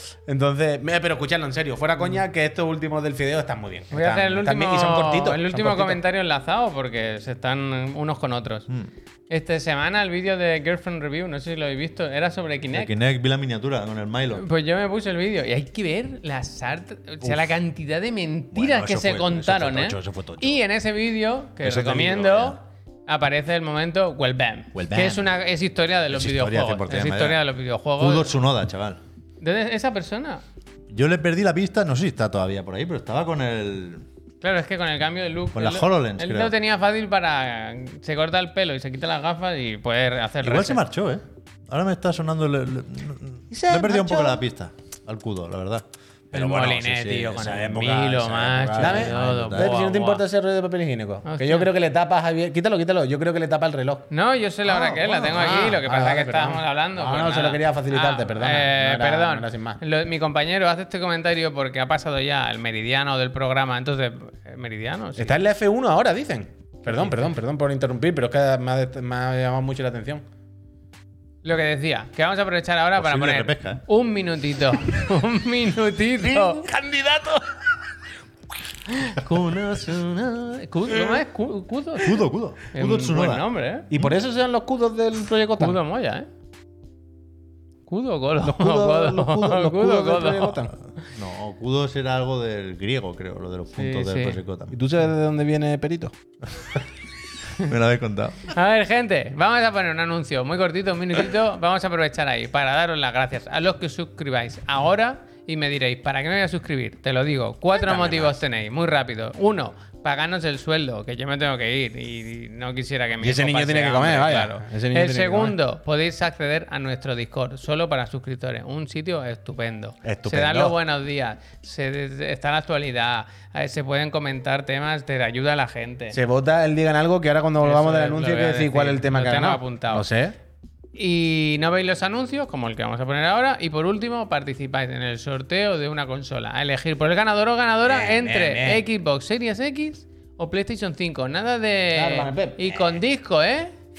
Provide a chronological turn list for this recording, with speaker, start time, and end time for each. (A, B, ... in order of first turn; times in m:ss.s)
0:00.3-0:06.0 A
0:03.9-0:08.7 B
0:09.3-0:12.9 B
0:12.7-0:14.4 C
0:14.3-0:28.3 B
0:18.5-0:20.6 C
0:21.6-0:22.6 C
0:24.7-0:25.3 C
0:26.1-0:27.4 C
0:28.0-0:29.0 C
0:29.4-0:30.4 B
0:30.9-0:34.0 C
0:34.4-0:40.8 B
0:35.5-0:36.5 C
0:40.4-0:49.7 C
0:43.5-0:44.4 A
0:46.3-0:50.2 B
0:48.8-0:54.1 A
0:51.2-0:51.7 B
0:54.1-1:05.4 B
0:54.6-0:55.6 C
0:55.3-0:59.8 A
1:05.2-1:10.2 A
1:11.4-1:17.4 B
1:13.0-1:13.8 C
1:18.9-1:22.2 B
1:22.0-1:24.2 C
1:22.7-1:23.9 B
1:23.9-1:25.8 A
1:25.6-1:26.3 B
1:27.9-1:30.6 B
1:28.4-1:30.7 A
1:31.0-1:34.8 C
1:33.8-1:34.4 B
1:34.7-1:36.1 A
1:37.5-1:38.5 C
1:38.4-2:06.2 B
1:53.2-1:55.6 A
2:00.0-2:00.7 A
2:06.1-2:10.4 A
2:07.6-2:10.0 B
2:10.9-2:23.7 B
2:17.8-2:18.8 A
2:21.9-2:23.0 A